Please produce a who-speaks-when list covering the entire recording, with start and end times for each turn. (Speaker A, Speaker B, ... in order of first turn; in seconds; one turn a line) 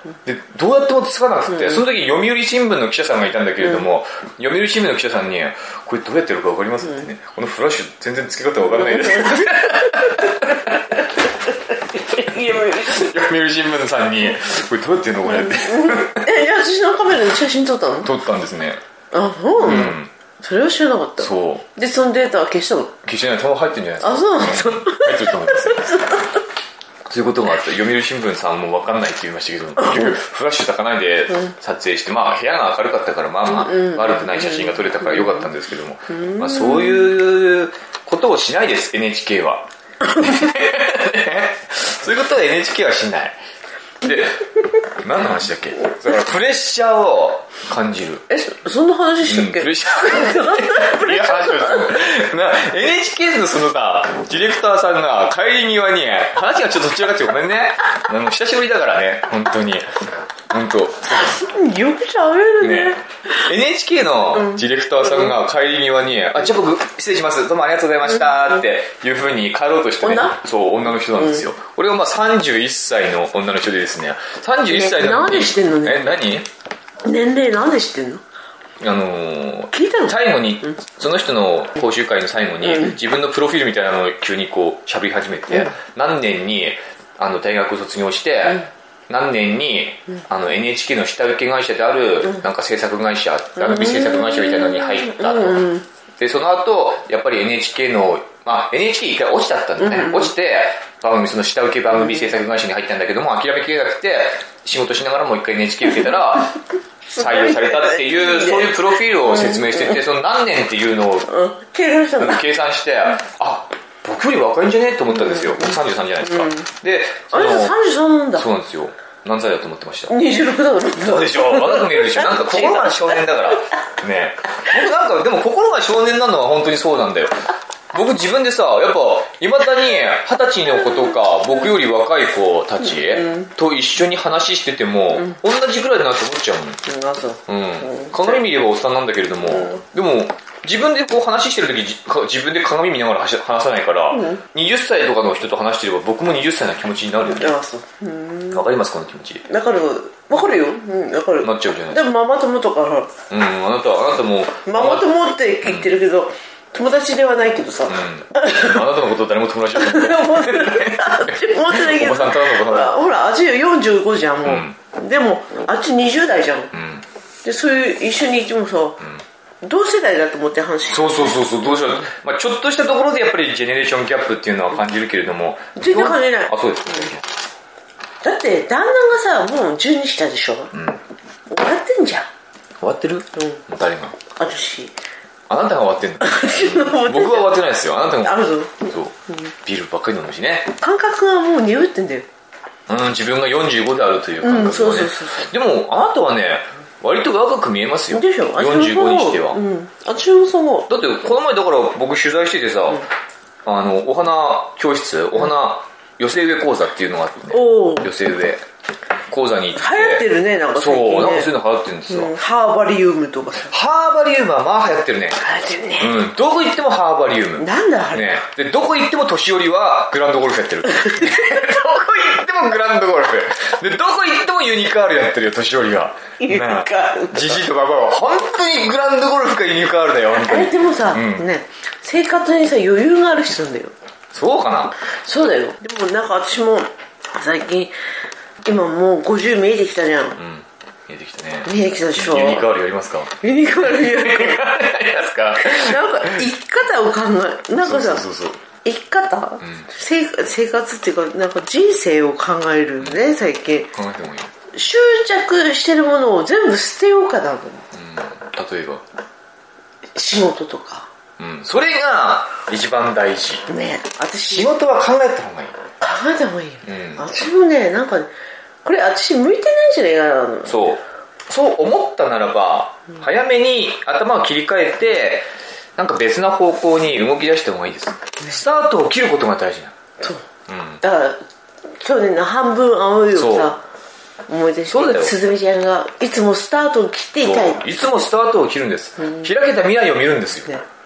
Speaker A: 0.3-11.0
Speaker B: 1.5-1.8
Speaker B: 8.7-10.3
Speaker B: 11.5-13.1
Speaker A: 12.5-16.3
Speaker B: 15.2-18.1
Speaker A: 18.0-18.8
Speaker B: 19.1-23.0
Speaker A: 19.6-20.1
Speaker A: 21.2-21.6
Speaker A: 23.0-26.1
Speaker B: 24.0-26.4
Speaker A: 27.1-43.4
Speaker B: 33.5-35.5
Speaker B: 36.1-37.1
Speaker A: 44.0-48.2
Speaker B: 48.3-51.9
Speaker A: 49.3-59.9
Speaker A: 60.5-61.4
Speaker B: 61.1-63.0
Speaker A: 62.6-76.5
Speaker B: 64.3-65.3
Speaker B: 70.0-70.4
Speaker B: 71.1-71.4
Speaker B: 74.7-76.2
Speaker B: 77.0-78.2
Speaker A: 78.8-106.6
Speaker B: 79.7-80.2
Speaker B: 82.6-83.0
Speaker B: 93.6-95.9
Speaker B: 99.8-100.3
Speaker B: 102.0-102.3
Speaker B: 107.1-110.0
Speaker A: 107.2-111.3
Speaker B: 111.3-112.5
Speaker A: 112.2-117.8
Speaker B: 115.1-116.7
Speaker B: 117.3-118.5
Speaker A: 118.3-120.1
Speaker B: 120.1-123.2
Speaker A: 121.0-136.8
Speaker B: 132.9-133.5
Speaker B: 136.9-138.4
Speaker A: 137.5-147.6
Speaker B: 139.5-139.8
Speaker B: 144.1-144.4
Speaker B: 147.3-148.7
Speaker A: 148.5-149.4
Speaker B: 149.4-153.1
Speaker A: 151.4-152.1
Speaker A: 153.3-155.1
Speaker B: 154.7-158.9
Speaker A: 155.6-155.9
Speaker A: 157.9-163.1
Speaker B: 159.8-166.7
Speaker A: 164.4-164.8
Speaker A: 166.7-167.0
Speaker B: 167.4-169.0
Speaker B: 169.6-172.0
Speaker A: 170.9-177.3
Speaker B: 175.8-177.1
Speaker B: 178.2-180.7
Speaker A: 180.7-181.0
Speaker B: 181.5-182.3
Speaker A: 182.8-184.2
Speaker B: 183.4-183.6
Speaker B: 184.2-184.9
Speaker A: 185.5-190.7
Speaker B: 186.2-187.6
Speaker B: 188.2-189.5
Speaker B: 190.8-192.3
Speaker A: 192.9-199.6
Speaker B: 194.4-195.5
Speaker B: 198.1-200.9
Speaker A: 200.9-203.1
Speaker A: 203.6-208.6
Speaker B: 207.5-208.1
Speaker A: 209.3-212.3
Speaker B: 209.8-211.5
Speaker B: 212.1-213.7
Speaker A: 213.6-215.4
Speaker B: 215.4-216.2
Speaker A: 216.0-231.4
Speaker B: 217.6-218.3
Speaker B: 221.1-221.6
Speaker B: 226.4-227.6
Speaker B: 230.3-233.9
Speaker A: 234.3-235.0
Speaker B: 235.2-237.9
Speaker B: 238.6-240.4
Speaker A: 240.4-246.5
Speaker B: 241.6-242.7
Speaker B: 243.4-244.7
Speaker B: 245.6-248.2
Speaker A: 247.8-248.6
Speaker B: 248.8-253.9
Speaker A: 249.6-249.9
Speaker A: 253.0-253.3
Speaker A: 253.9-254.5
Speaker B: 254.7-257.9
Speaker A: 257.9-259.0
Speaker B: 260.1-261.1
Speaker A: 261.4-263.6
Speaker B: 263.7-264.7
Speaker A: 264.4-265.8
Speaker B: 266.0-268.3
Speaker A: 266.9-267.2
Speaker B: 268.8-270.8
Speaker A: 270.6-275.4
Speaker A: 276.0-279.9
Speaker B: 280.2-280.4
Speaker A: 280.7-281.0
Speaker B: 281.0-281.4
Speaker B: 281.9-283.8
Speaker A: 283.4-283.7
Speaker B: 284.5-287.9
Speaker A: 284.9-285.4
Speaker A: 287.4-290.7